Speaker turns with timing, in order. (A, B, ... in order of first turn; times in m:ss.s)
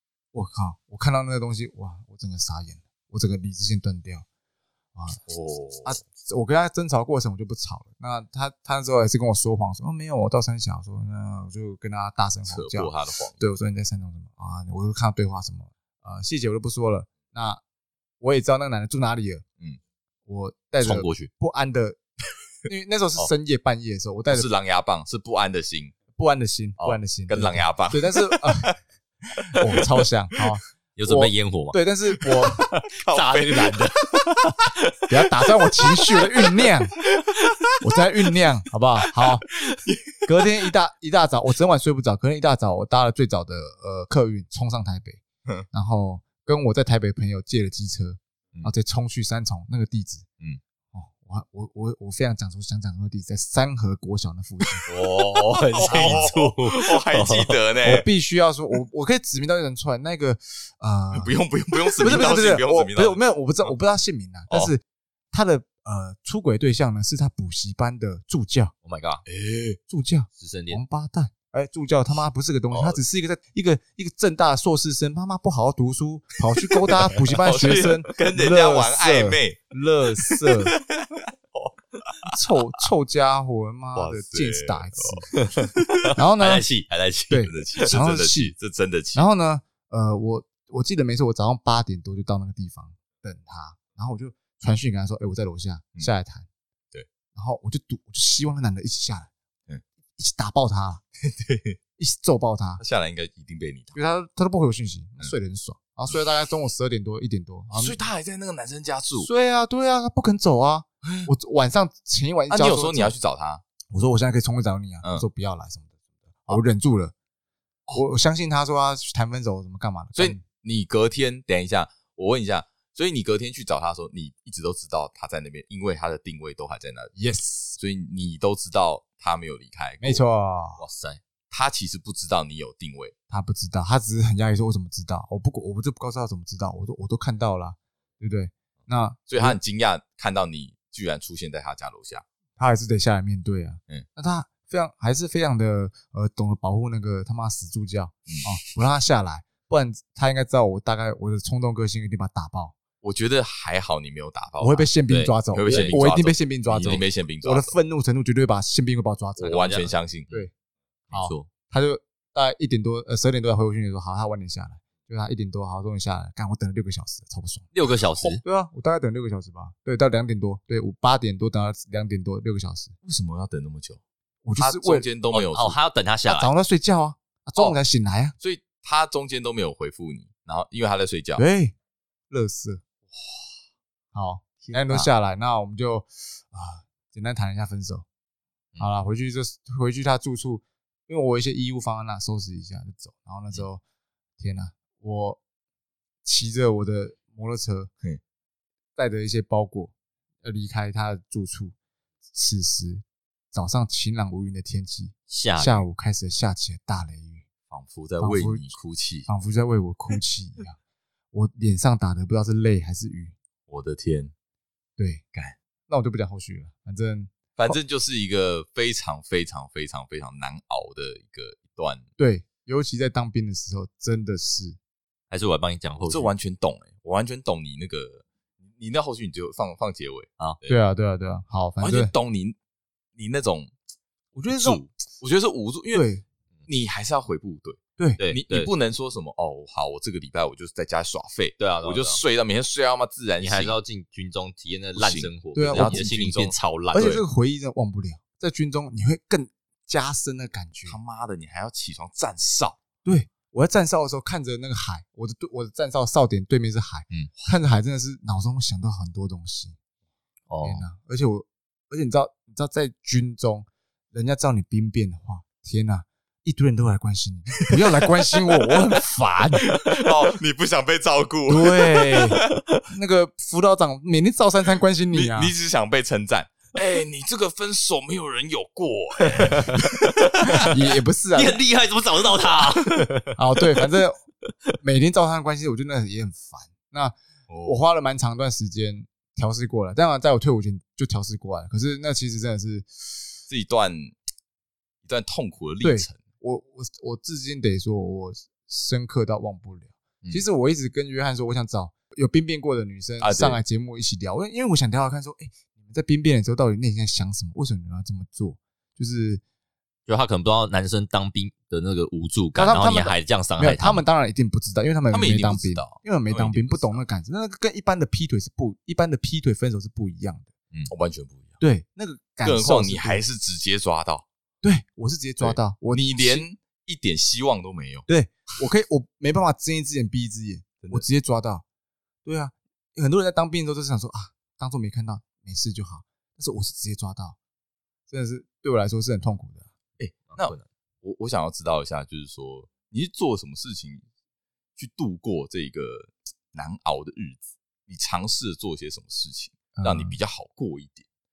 0:00.3-0:04.2 A
0:04.9-0:05.2 A
0:05.2-0:06.0 B
0:05.8-0:17.6 A
0:12.5-0:13.4 B
0:18.2-0:19.4 A
0:20.2-0:22.0 A
0:20.8-0:21.3 C
0:22.6-0:24.5 A
0:24.3-0:25.9 B
0:26.1-0:28.8 A
0:26.8-0:28.4 B
0:29.6-0:32.6 A
0:31.0-0:31.8 C
0:32.6-0:34.7 C
0:33.0-0:34.3 B
0:35.1-0:36.9 A
0:37.8-0:39.4 A
0:39.8-0:40.1 B
0:40.2-0:50.2 A
0:50.9-0:54.9 A
0:54.8-0:57.6 C
0:55.4-0:58.0 B
0:55.9-0:56.3 A
0:57.8-1:01.3 A
1:01.1-1:03.7 B
1:02.0-1:08.7 A
1:08.8-1:09.2 C
1:09.2-1:09.8 B
1:09.9-1:20.7 A
1:10.4-1:10.8 C
1:17.3-1:19.6 B
1:20.3-1:22.3 B
1:22.2-1:25.3 A
1:23.9-1:25.2 B
1:25.3-1:27.8 C
1:26.2-1:26.7 A
1:27.3-1:29.2 B
1:27.3-1:28.5 A
1:29.1-1:36.5 A
1:37.3-1:39.3 A
1:40.2-1:41.0 A
1:41.2-1:41.8 B
1:42.0-1:42.8 A
1:42.8-1:44.0 B
1:43.9-1:48.0 A
1:47.7-1:49.3 B
1:49.2-1:53.1 A
1:51.0-1:51.3 B
1:52.5-1:53.6 B
1:53.9-1:57.1 A
1:57.9-2:00.4 A
2:00.2-2:07.1 B
2:07.1-2:07.8 A
2:07.8-2:10.2 B
2:10.0-2:10.8 A
2:10.8-2:11.2 C
2:11.5-2:13.1 B
2:13.3-2:19.6 A
2:19.3-2:22.2 B
2:22.6-2:32.7 A
2:28.3-2:28.5 B
2:33.0-2:34.9 B
2:34.6-2:39.7 A
2:35.1-2:35.9 C
2:35.5-2:37.7 B
2:39.4-2:40.4 C
2:39.4-2:40.3 B
2:41.1-2:41.5 C
2:41.1-2:47.7 A
2:47.7-2:48.4 C
2:48.4-2:52.9 A
2:53.0-2:54.0 B
2:54.4-2:55.1 A
2:54.6-2:55.8 B
2:55.3-2:56.5 C
2:56.3-2:58.4 A
2:58.4-3:01.4 B
3:01.4-3:01.7 A
3:02.3-3:02.8 A
3:03.1-3:03.6 B
3:04.1-3:08.0 A
3:08.8-3:13.8 A
3:14.4-3:15.4 A
3:16.2-3:17.9 A
3:19.0-3:21.7 A
3:22.3-3:27.4 A
3:25.3-3:25.8 C
3:27.7-3:29.3 B
3:28.2-3:28.8 A
3:29.3-3:30.8 A
3:31.3-3:33.4 A
3:33.7-3:34.3 B
3:35.0-3:35.2 A
3:35.9-3:37.8 A
3:37.6-3:42.0 B
3:42.2-3:44.8 A
3:45.3-3:46.3 C
3:46.0-3:50.8 B
3:50.7-3:52.1 A
3:51.8-3:52.6 B
3:53.2-3:53.7 B
3:54.3-3:54.8 A
3:54.5-3:56.0 B
3:55.9-3:56.2 A
3:56.7-4:03.8 B
3:58.2-3:58.7 C
4:01.6-4:02.2 C
4:03.4-4:07.2 C
4:05.0-4:07.2 B
4:05.5-4:06.1 A
4:06.9-4:11.0 A
4:10.8-4:12.8 B
4:13.0-4:19.8 A
4:20.5-4:20.8 C
4:20.6-4:29.7 A
4:29.8-4:31.8 B
4:31.5-4:32.4 A
4:32.9-4:35.5 A
4:35.1-4:40.7 B
4:39.2-4:40.7 C
4:40.6-4:41.6 A
4:41.3-4:43.4 C
4:43.4-4:44.2 A
4:44.8-4:53.4 A
4:47.5-4:47.8 B
4:53.5-4:54.1 B
4:55.0-4:56.2 B
4:55.8-5:09.4 A
5:03.2-5:03.6 B
5:10.1-5:14.0 C
5:12.6-5:20.5 A
5:15.1-5:17.0 B
5:20.9-5:21.6 B
5:21.6-5:23.2 A
5:22.4-5:24.2 B
5:24.6-5:26.5 A
5:25.4-5:28.1 B
5:28.1-5:31.6 A
5:30.8-5:31.0 B
5:32.2-5:37.4 A
5:38.1-5:39.7 A
5:40.0-5:44.0 B
5:40.3-5:40.6 C
5:44.8-5:51.0 B
5:49.7-5:50.2 A